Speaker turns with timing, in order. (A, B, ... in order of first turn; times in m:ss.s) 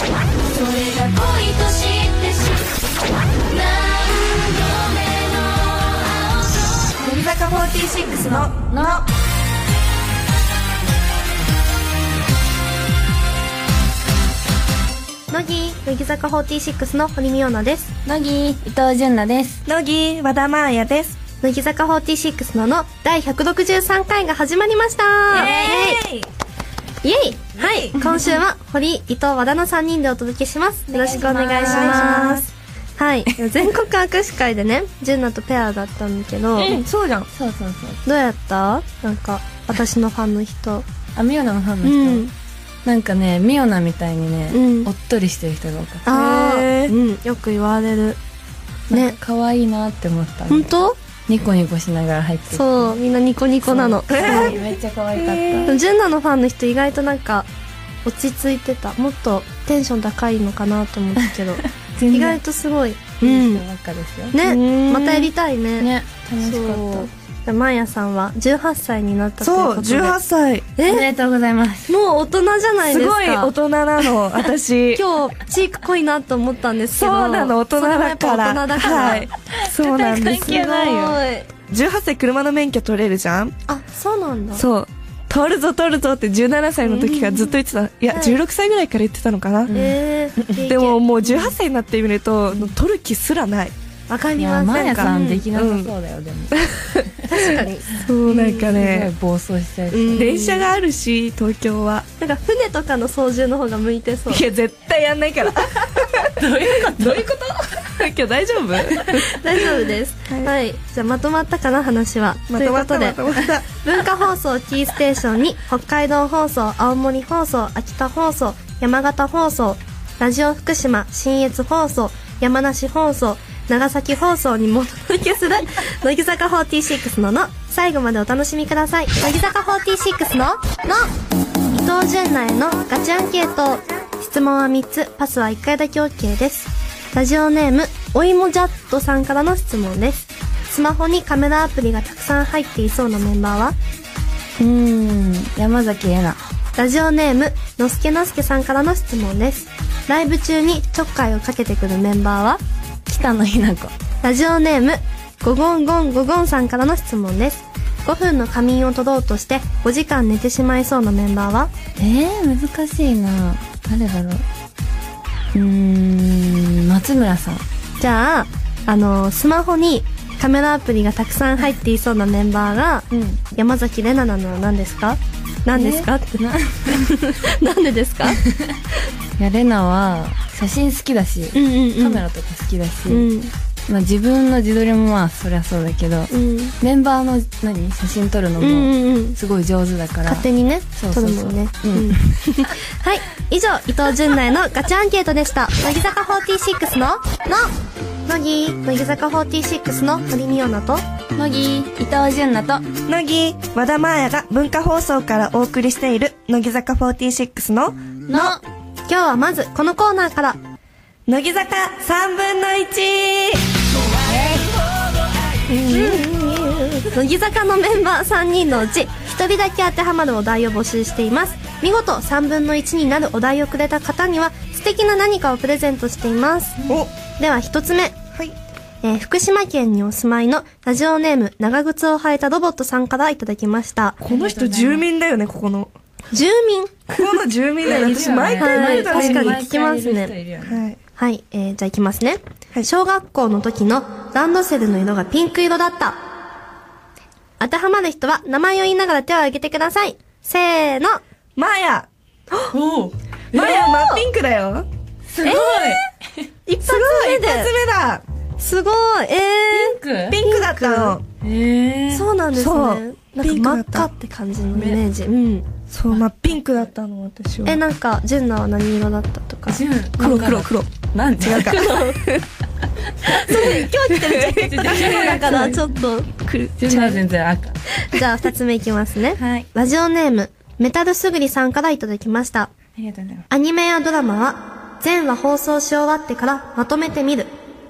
0:00.4-0:02.7 A
0:03.5-0:07.0 A
0:07.0-0:09.0 B
0:08.2-0:09.0 A
0:15.3-0:17.9 C
0:18.0-0:19.6 A
0:19.6-0:21.2 B
0:21.4-0:26.0 C
0:25.3-0:26.3 B
0:25.3-0:25.8 A
0:27.0-0:36.8 C
0:27.6-0:28.2 B
0:30.9-0:32.4 A
0:31.6-0:32.5 B
0:36.6-0:37.3 B
0:37.3-0:38.0 A
0:38.0-0:40.8 C
0:41.2-0:42.2 A
0:41.8-0:42.3 C
0:42.8-0:46.0 A
0:44.5-0:44.9 C
0:46.0-0:48.2 C
0:46.1-0:46.9 B
0:48.9-0:49.2 C
0:48.9-0:50.7 A
0:50.5-0:51.0 C
0:51.3-0:53.0 A
0:52.5-0:54.6 C
0:53.7-0:55.7 A
0:54.1-0:55.7 B
0:55.6-0:57.5 C
0:58.0-1:03.6 C
1:02.0-1:02.4 A
1:03.2-1:04.4 A
1:04.3-1:10.2 C
1:04.4-1:05.3 B
1:05.8-1:07.1 A
1:09.4-1:10.7 B
1:10.8-1:11.1 C
1:10.9-1:11.9 A
1:11.9-1:13.5 C
1:12.8-1:15.0 B
1:14.9-1:19.3 C
1:16.9-1:23.6 B
1:19.6-1:21.2 A
1:20.3-1:21.5 C
1:23.7-1:24.6 C
1:24.5-1:29.8 B
1:26.8-1:27.5 C
1:28.1-1:28.4 C
1:29.7-1:31.5 C
1:30.4-1:33.7 B
1:34.1-1:35.5 C
1:34.4-1:36.6 A
1:34.7-1:35.9 B
1:36.5-1:39.1 B
1:37.2-1:38.8 C
1:38.7-1:40.3 A
1:39.9-1:40.7 C
1:40.1-1:42.1 B
1:42.2-1:44.4 C
1:44.3-1:49.4 B
1:46.4-1:47.2 A
1:48.9-1:49.2 A
1:49.2-2:11.1 C
1:52.5-1:53.6 B
2:11.7-2:23.8 C
2:24.6-2:26.4 A
2:26.8-2:32.6 C
2:33.1-2:33.9 A
2:34.2-2:41.7 C
2:42.0-2:44.4 A
2:45.5-2:47.6 A
2:48.0-2:58.4 C
2:53.1-2:53.4 A
2:55.7-2:57.0 A
2:59.4-3:03.3 A
3:01.5-3:02.3 C
3:03.1-3:03.5 C
3:03.9-3:12.2 A
3:06.3-3:06.8 C
3:08.6-3:09.4 C
3:10.2-3:17.7 C
3:18.3-3:21.0 C
3:21.4-3:22.8 A
3:23.1-3:28.6 B
3:28.3-3:28.6 A
3:29.1-3:30.6 C
3:31.3-3:33.6 B
3:35.7-3:46.8 C
3:35.8-3:36.4 B
3:46.9-3:47.1 B
3:47.4-3:48.2 C
3:49.0-3:54.2 C
3:54.2-3:55.9 B
3:54.3-3:55.0 A
3:56.3-3:57.3 C
3:57.1-3:59.6 B
3:57.8-4:00.8 A
3:58.6-4:00.3 C
4:00.6-4:01.0 B
4:01.2-4:06.2 C
4:07.6-4:11.2 C
4:11.6-4:12.1 B
4:12.5-4:12.8 C
4:12.7-4:13.7 A
4:13.5-4:14.9 B
4:13.5-4:14.2 C
4:15.3-4:16.0 A
4:15.4-4:16.0 C
4:16.6-4:17.7 C
4:16.8-4:18.2 B
4:18.6-4:21.2 C
4:19.7-4:20.4 A
4:20.3-4:21.2 B
4:21.4-4:22.3 A
4:22.1-4:25.7 C
4:22.5-4:24.1 B
4:24.7-4:25.0 A
4:25.9-4:27.8 B
4:27.6-4:29.8 C
4:29.7-4:32.0 A
4:30.2-4:32.4 B
4:31.6-4:32.3 C
4:33.2-4:36.3 C
4:33.5-4:35.7 B
4:34.5-4:35.8 A
4:36.3-4:37.2 B
4:36.8-4:37.8 A
4:38.0-4:42.7 C
4:39.4-4:39.6 A
4:43.0-4:43.4 A
4:43.5-4:47.5 C